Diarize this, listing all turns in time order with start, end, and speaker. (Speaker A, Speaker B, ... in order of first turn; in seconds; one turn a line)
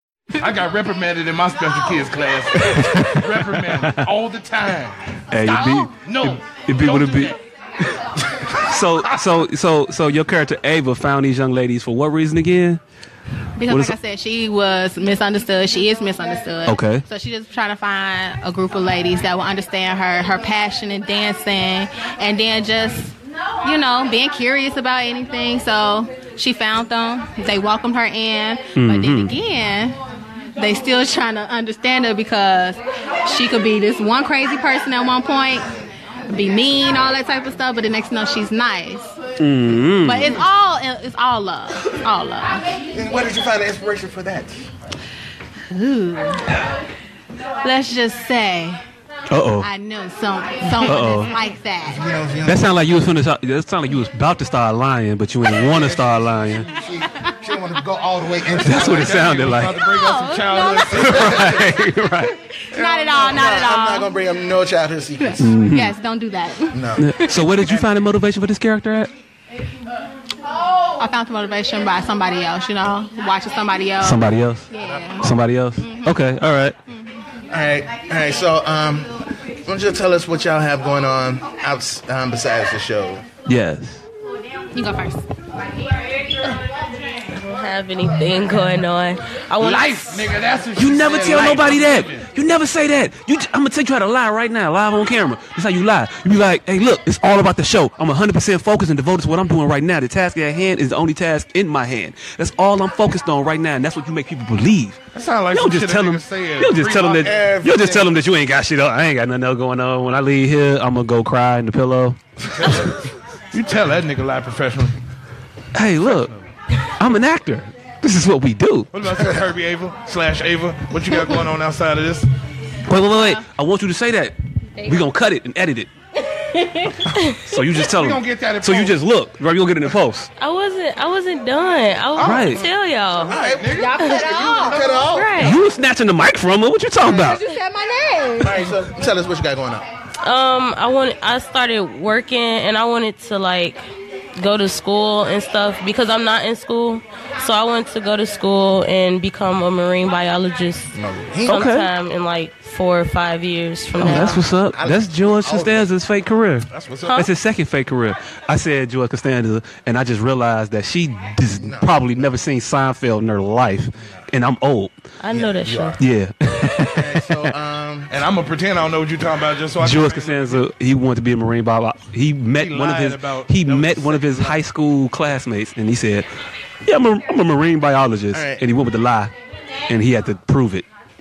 Speaker A: 0.4-7.4
Speaker B: 2.6-4.0
Speaker B: 5.3-7.3
Speaker B: 8.6-12.8
Speaker C: 13.6-30.0
Speaker B: 13.7-13.9
Speaker B: 16.7-17.0
Speaker B: 28.8-29.3
Speaker C: 30.6-35.7
Speaker C: 36.3-39.2
Speaker B: 39.4-40.4
Speaker C: 40.0-42.6
Speaker D: 42.9-44.6
Speaker C: 45.7-46.4
Speaker C: 47.6-48.8
Speaker B: 49.3-49.7
Speaker C: 49.6-52.0
Speaker B: 50.8-51.3
Speaker D: 51.9-52.7
Speaker B: 52.5-56.7
Speaker D: 55.6-59.4
Speaker B: 58.6-59.9
Speaker A: 58.7-61.6
Speaker C: 59.8-61.3
Speaker B: 61.0-62.4
Speaker D: 61.0-61.6
Speaker C: 62.6-64.1
Speaker A: 62.7-63.3
Speaker D: 63.2-65.5
Speaker C: 65.2-67.3
Speaker B: 65.4-65.9
Speaker D: 66.7-67.8
Speaker B: 67.0-69.1
Speaker C: 71.0-75.3
Speaker B: 74.0-74.7
Speaker D: 74.8-75.2
Speaker B: 75.2-76.8
Speaker C: 75.8-76.2
Speaker D: 77.5-83.2
Speaker B: 83.5-84.0
Speaker C: 84.7-85.2
Speaker E: 87.3-90.3
Speaker A: 89.6-92.3
Speaker B: 90.8-105.0
Speaker A: 105.1-107.5
Speaker B: 105.5-112.2
Speaker D: 107.2-108.2
Speaker A: 112.6-112.9
Speaker A: 113.5-115.0
Speaker B: 115.8-116.3
Speaker A: 116.0-116.5
Speaker B: 117.0-118.9
Speaker A: 118.9-122.3
Speaker B: 122.9-125.9
Speaker B: 127.5-130.3
Speaker A: 127.5-129.0
Speaker E: 130.4-133.4
Speaker A: 132.2-132.6
Speaker B: 132.2-132.6
Speaker D: 133.2-135.4
Speaker A: 133.3-135.3
Speaker C: 133.7-135.0
Speaker E: 135.1-135.5
Speaker B: 135.3-137.4
Speaker D: 137.1-137.4
Speaker C: 137.2-138.6
Speaker D: 138.4-139.8
Speaker E: 140.2-143.8
Speaker E: 144.4-154.4
Speaker D: 150.9-151.7
Speaker B: 151.5-151.9
Speaker B: 154.0-164.9
Speaker D: 154.0-155.9
Speaker A: 156.7-157.1
Speaker D: 156.8-157.1
Speaker D: 161.6-162.3
Speaker E: 165.2-166.0
Speaker D: 165.3-166.0
Speaker B: 166.0-167.5
Speaker D: 166.9-168.2
Speaker A: 168.1-170.7
Speaker B: 169.8-176.3
Speaker A: 172.6-174.6
Speaker B: 176.9-179.3
Speaker D: 178.3-178.6
Speaker B: 179.9-180.8